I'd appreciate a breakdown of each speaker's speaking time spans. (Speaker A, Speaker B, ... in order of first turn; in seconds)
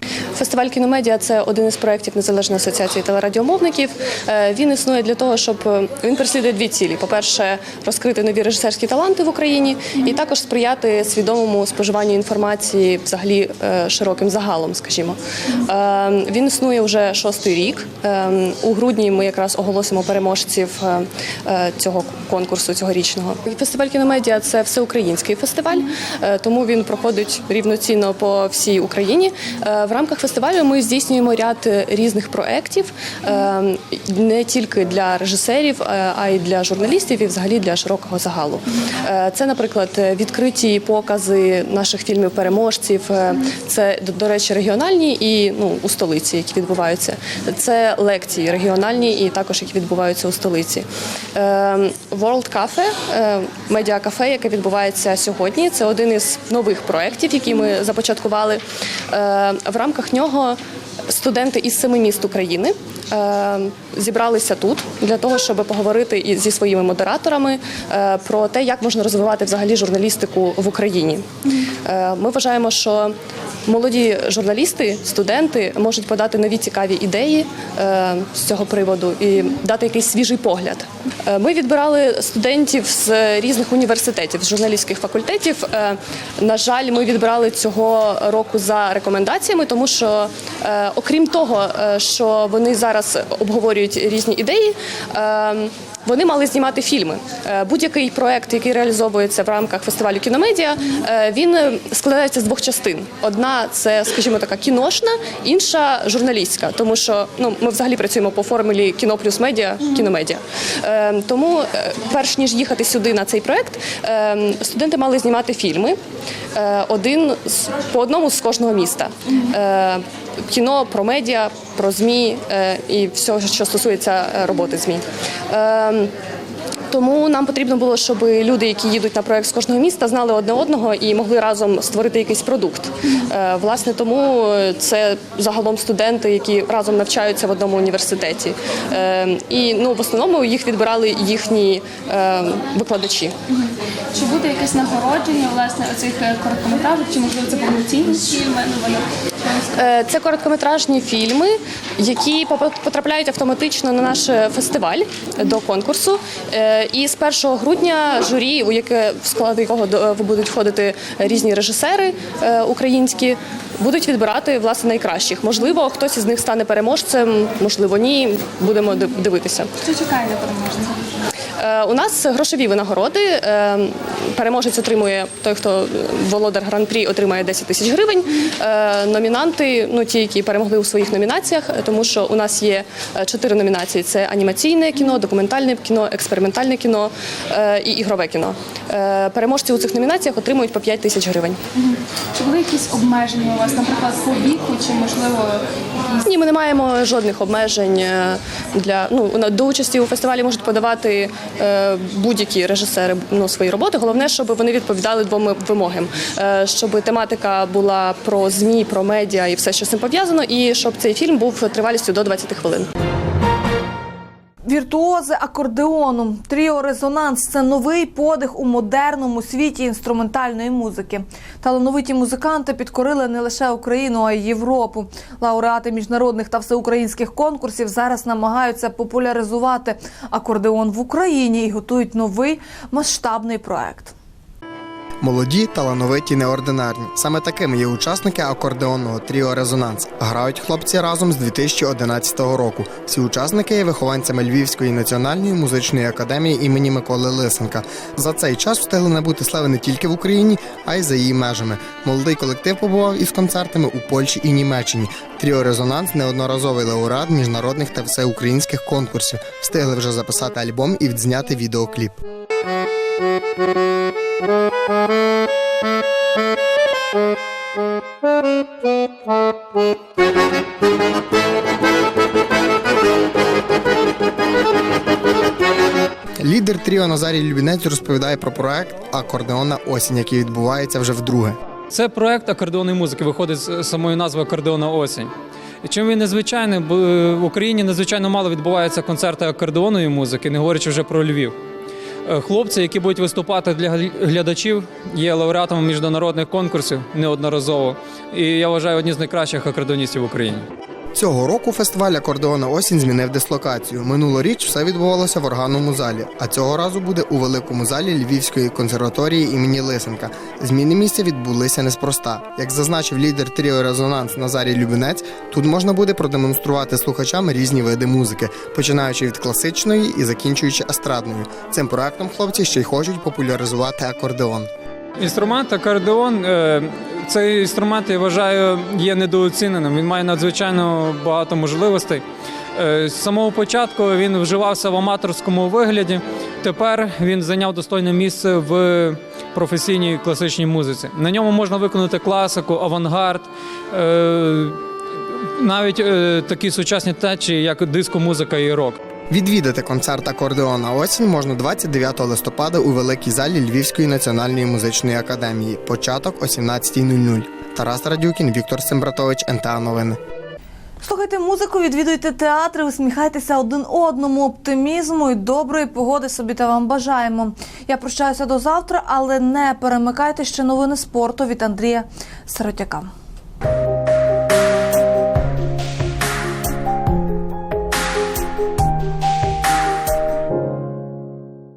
Speaker A: 0.3-71.3, 71.8-73.1, 73.7-116.0, 116.5-126.1, 126.9-143.3, 149.7-169.7, 171.6-191.6, 196.2-212.9
Speaker B: 143.5-149.7, 169.8-171.2, 191.8-195.7
Speaker C: 214.7-234.1, 361.0-373.1
Speaker D: 235.2-262.2, 276.4-281.6, 301.1-324.7, 349.3-360.2
Speaker E: 281.9-285.3, 285.8-291.6, 292.2-300.6, 325.2-332.2, 332.7-344.8, 345.6-349.0